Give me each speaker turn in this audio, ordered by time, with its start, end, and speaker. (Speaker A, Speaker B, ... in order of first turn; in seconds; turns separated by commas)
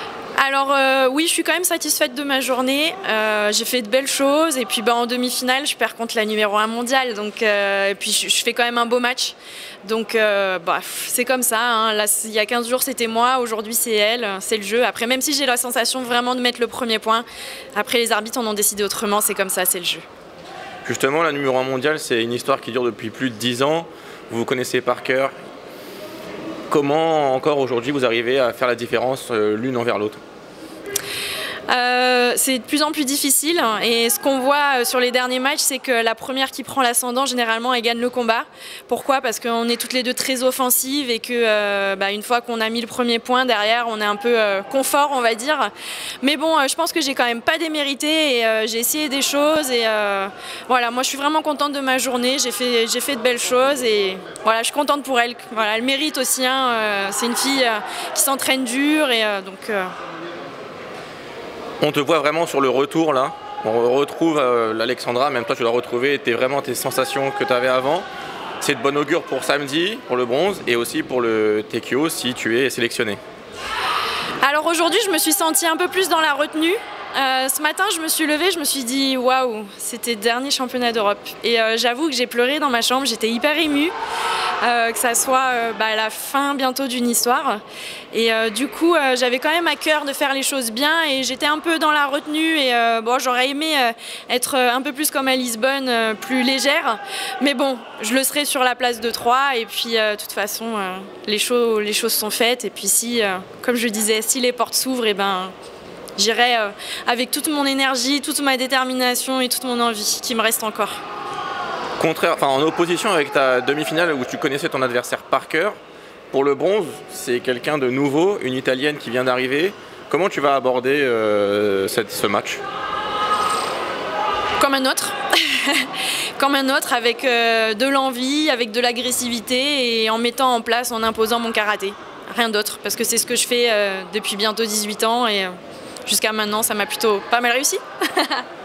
Speaker A: 0.4-17.2, Speaker A: 17.8-20.1, Speaker B: 20.9-25.3, Speaker B: 26.7-30.2, Speaker A: 31.7-59.9, Speaker B: 61.8-68.1, Speaker B: 68.6-73.2, Speaker A: 74.4-83.9, Speaker A: 84.6-87.6, Speaker A: 88.1-105.5, Speaker A: 106.2-111.0, Speaker B: 112.0-115.8, Speaker B: 116.3-122.6, Speaker A: 124.6-135.5, Speaker A: 136.1-138.4